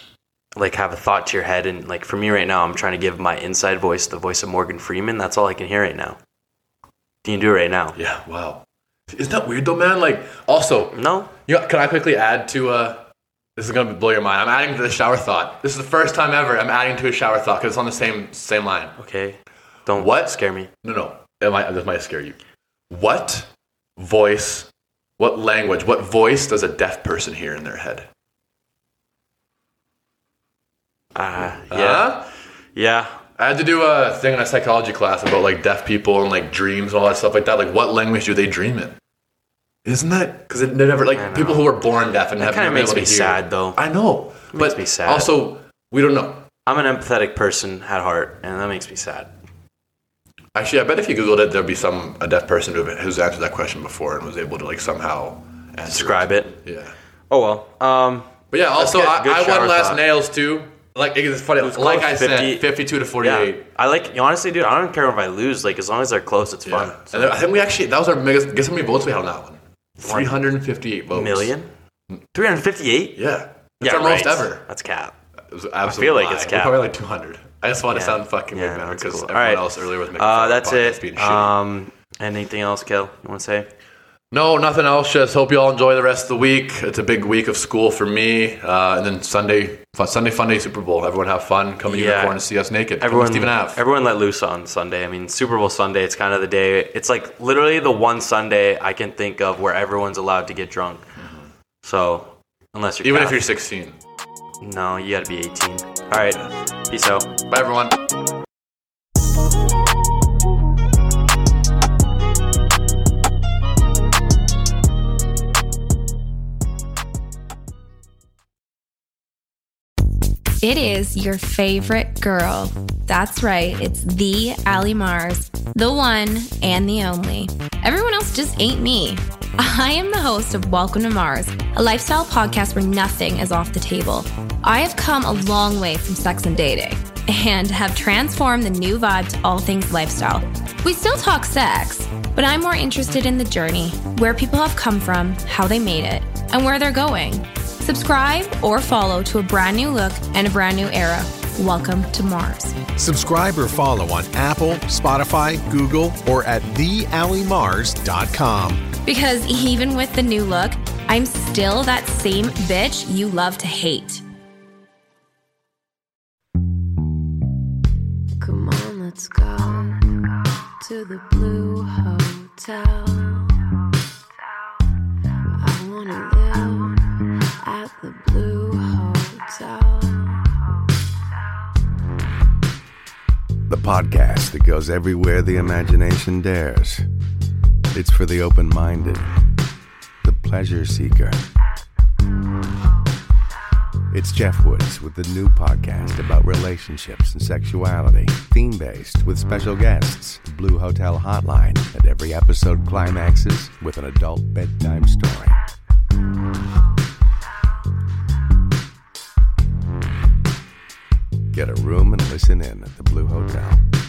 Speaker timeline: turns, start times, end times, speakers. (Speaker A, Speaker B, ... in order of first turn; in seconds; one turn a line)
Speaker A: 0.6-6.2
Speaker A: 7.2-8.0
Speaker B: 8.0-19.0
Speaker A: 10.9-11.3
Speaker A: 19.0-20.7
Speaker B: 19.9-22.4
Speaker B: 22.9-28.1
Speaker A: 31.1-32.2
Speaker B: 31.7-32.3
Speaker A: 32.7-33.1
Speaker B: 33.4-39.0
Speaker B: 39.8-46.5
Speaker A: 41.1-41.7
Speaker A: 42.4-43.8
Speaker A: 44.5-45.3
Speaker A: 46.6-49.3
Speaker B: 50.5-56.9
Speaker A: 55.8-56.6
Speaker A: 57.3-60.1
Speaker B: 58.5-63.6
Speaker A: 61.6-67.4
Speaker B: 66.7-71.5
Speaker A: 70.0-70.5
Speaker A: 71.1-71.7
Speaker A: 72.3-73.2
Speaker B: 73.2-74.7
Speaker A: 73.8-75.2
Speaker B: 75.5-81.5
Speaker A: 75.9-76.8
Speaker A: 77.9-83.7
Speaker B: 84.3-93.8
Speaker A: 91.8-92.4
Speaker A: 93.0-101.1
Speaker B: 101.2-101.5
Speaker A: 101.8-103.5
Speaker B: 103.0-104.0
Speaker A: 104.6-107.3
Speaker B: 107.5-108.0
Speaker C: 120.6-152.8
Speaker D: 152.9-158.9
Speaker C: 159.1-164.2
Speaker E: 168.4-173.6
Speaker E: 175.6-177.1
Speaker E: 177.6-180.6
Speaker F: 183.7-187.1
Speaker F: 187.9-189.3
Speaker F: 190.2-191.4
Speaker F: 194.1-205.6
Speaker F: 211.5-213.8